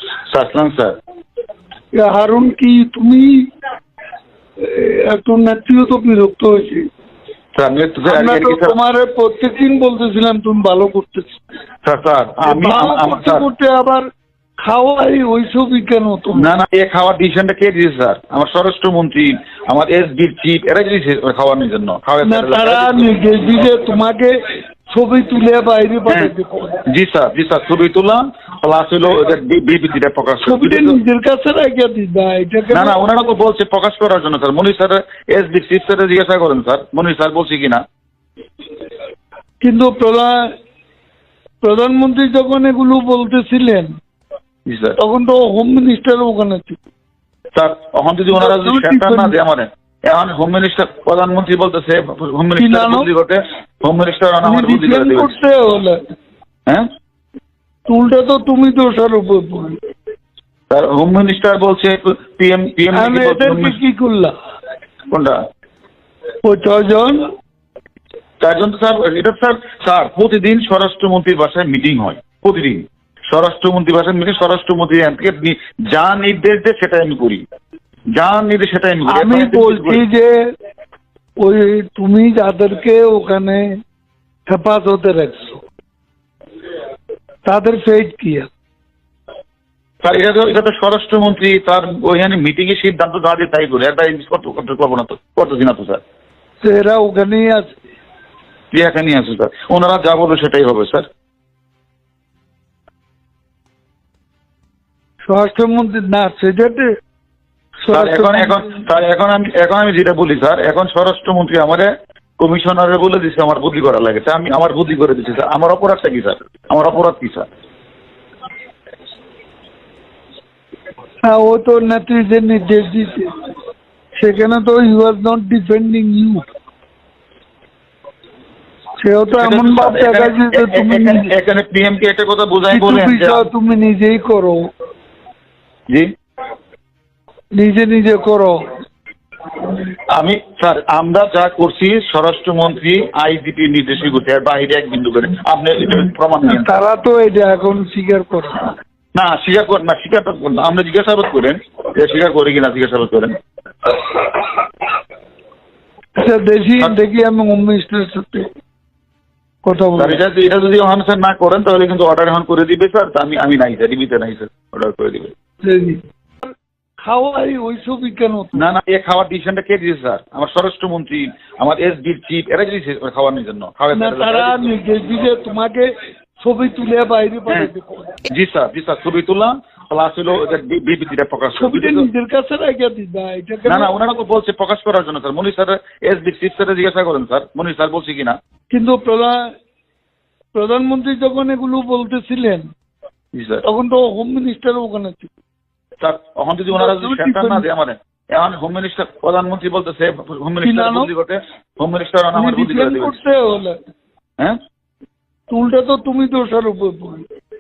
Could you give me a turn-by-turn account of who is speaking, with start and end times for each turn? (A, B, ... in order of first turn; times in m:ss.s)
0:00.3-0:01.0 A
0:01.9-0:03.4 B
0:04.6-0:06.9 B
0:07.6-0:08.8 A
0:08.1-0:11.4 B
0:11.8-0:13.5 A
0:12.4-0:14.0 B
0:14.6-0:16.5 B
0:16.4-0:23.1 A
0:22.2-0:24.4 B
0:24.9-0:26.8 B
0:26.9-0:31.0 A
0:30.4-0:33.0 B
0:32.7-0:37.8 A
0:39.6-0:40.4 B
0:41.6-0:43.9 B
0:44.7-0:45.0 A
0:45.0-0:46.8 B
0:47.6-0:55.3 A
0:48.3-0:49.3 B
0:52.6-0:53.1 B
0:54.4-0:56.0 B
0:57.9-0:59.8 B
1:00.7-1:03.8 A
1:02.9-1:04.3 B
1:05.1-1:05.4 A
1:06.4-1:07.2 B
1:08.4-1:17.4 A
1:18.2-1:20.0 A
1:19.1-1:20.3 B
1:21.4-1:23.8 B
1:24.5-1:25.6 B
1:27.4-1:28.5 B
1:30.0-1:36.0 A
1:36.6-1:37.8 B
1:38.7-1:41.1 A
1:45.3-1:46.9 B
1:47.8-1:48.8 B
1:47.9-1:57.5 A
2:01.2-2:03.3 B
2:04.2-2:06.4 B
2:09.0-2:11.3 B
2:09.4-2:13.5 A
2:12.7-2:14.6 B
2:17.6-2:18.6 B
2:20.1-2:26.7 A
2:26.4-2:28.7 B
2:29.2-2:33.4 A
2:36.2-2:38.5 B
2:39.6-2:40.2 B
2:40.0-2:45.3 A
2:45.6-2:46.5 B
2:47.0-2:48.6 B
2:48.6-2:54.7 A
2:54.0-2:55.9 B
2:56.4-2:58.1 B
2:58.3-3:02.1 A
3:01.6-3:03.9 B
3:03.7-3:08.4 A
3:08.7-3:09.5 B
3:10.5-3:12.7 B
3:13.3-3:13.6 A
3:13.6-3:15.3 B
3:16.0-3:23.2 A
3:16.8-3:17.6 B
3:20.6-3:21.1 B
3:22.4-3:23.8 B
3:25.5-3:27.2 B